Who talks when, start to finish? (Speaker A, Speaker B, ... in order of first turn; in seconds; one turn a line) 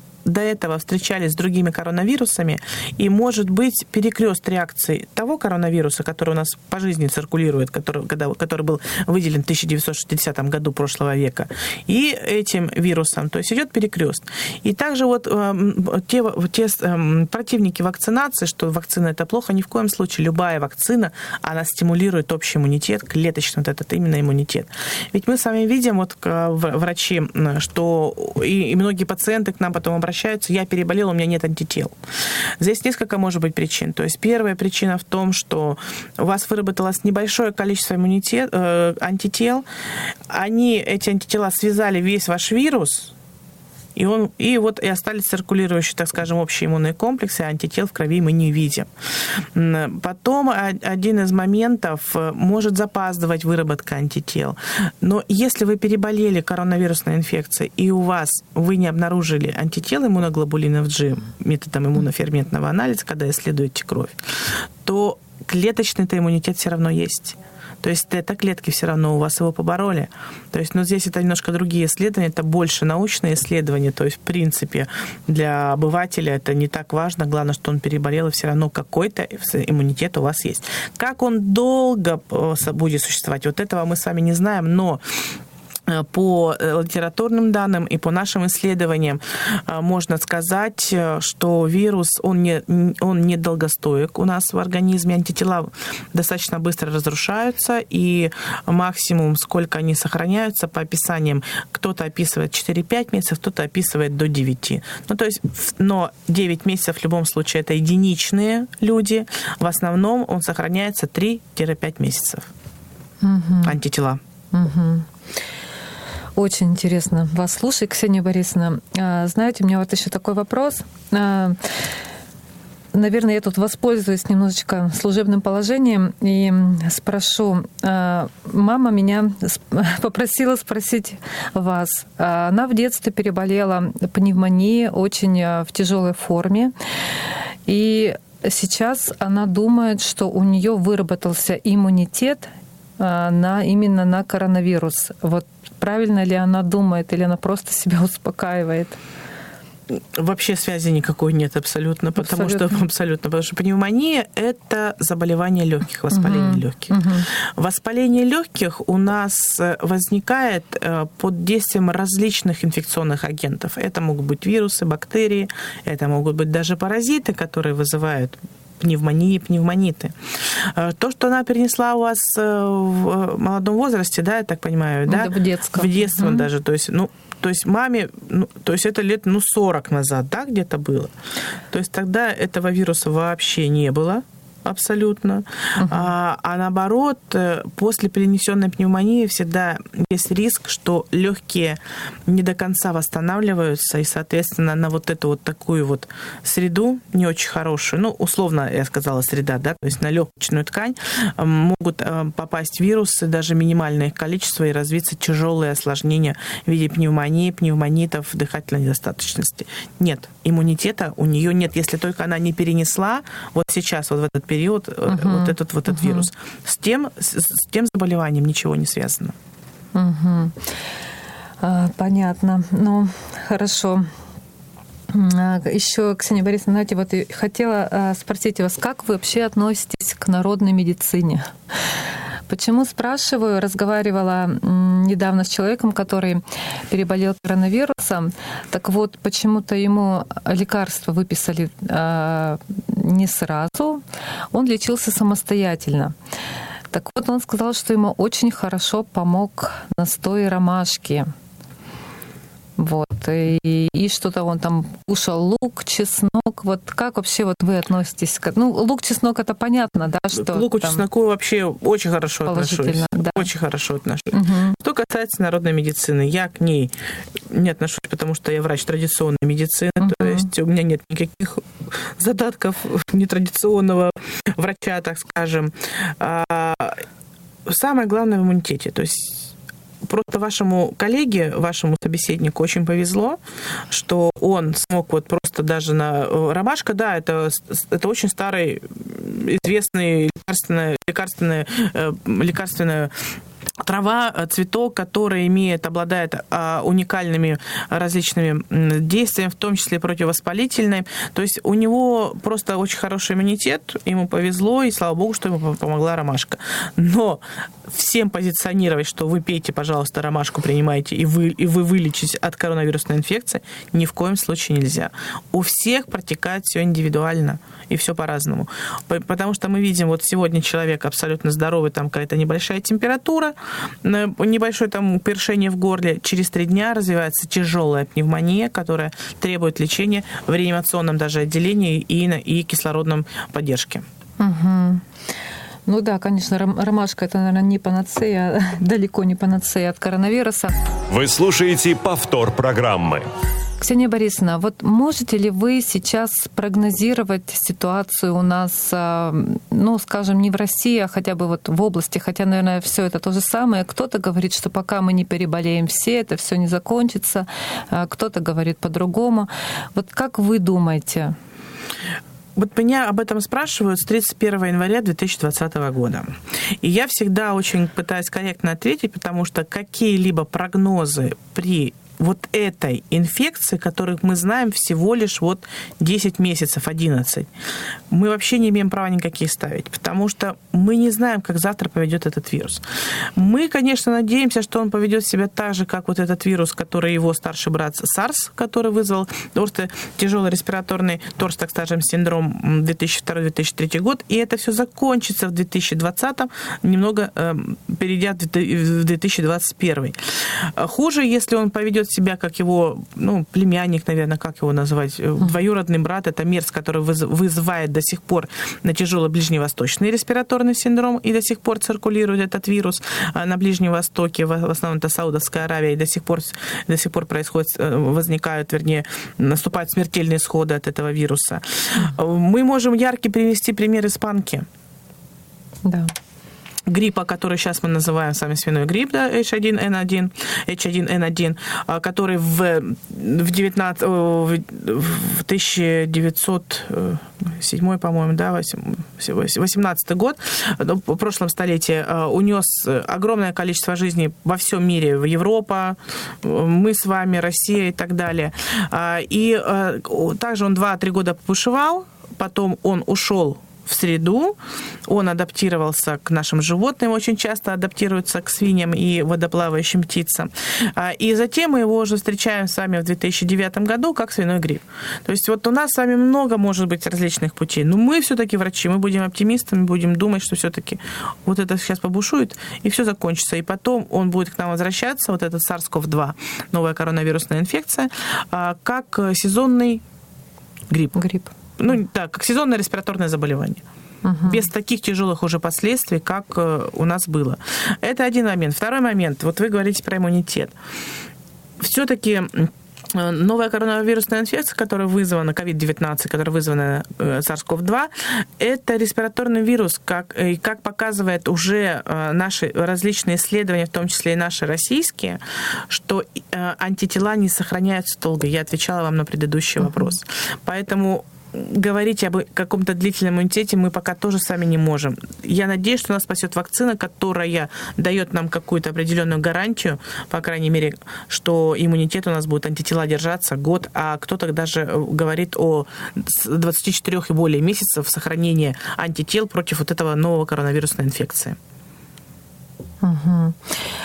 Speaker A: 0.2-31.9
Speaker A: 32.6-39.6
Speaker A: 40.3-43.1
Speaker A: 43.9-48.9
Speaker A: 49.5-85.0
Speaker A: 85.9-112.5
Speaker B: 113.2-113.8
Speaker A: 113.6-114.2
Speaker B: 114.5-115.1
Speaker B: 116.3-121.8
Speaker B: 122.9-136.7
Speaker B: 137.7-149.0
Speaker A: 149.9-181.1
Speaker B: 152.2-152.8
Speaker B: 156.1-157.2
Speaker B: 175.1-176.5
Speaker A: 181.7-219.3
Speaker B: 185.8-186.1
Speaker B: 215.1-216.3
Speaker B: 219.9-220.6
Speaker B: 221.6-224.1
Speaker B: 225.1-231.5
Speaker B: 232.5-246.1
Speaker B: 246.9-251.3
Speaker B: 252.8-261.0
Speaker A: 260.3-277.0
Speaker B: 262.4-263.5
Speaker B: 264.3-264.8
Speaker B: 270.0-270.5
Speaker A: 277.6-293.2
Speaker A: 293.8-334.0
Speaker B: 334.4-335.0
Speaker B: 335.9-340.8
Speaker C: 341.1-343.3
Speaker B: 343.8-361.4
Speaker A: 362.6-377.5
Speaker A: 378.1-424.7
Speaker B: 425.8-426.1
Speaker A: 426.9-480.0
Speaker A: 480.9-481.2
Speaker B: 481.1-481.5
Speaker A: 481.8-483.8
Speaker B: 484.2-484.6
Speaker A: 484.4-490.7
Speaker A: 491.8-531.6
Speaker B: 533.0-533.8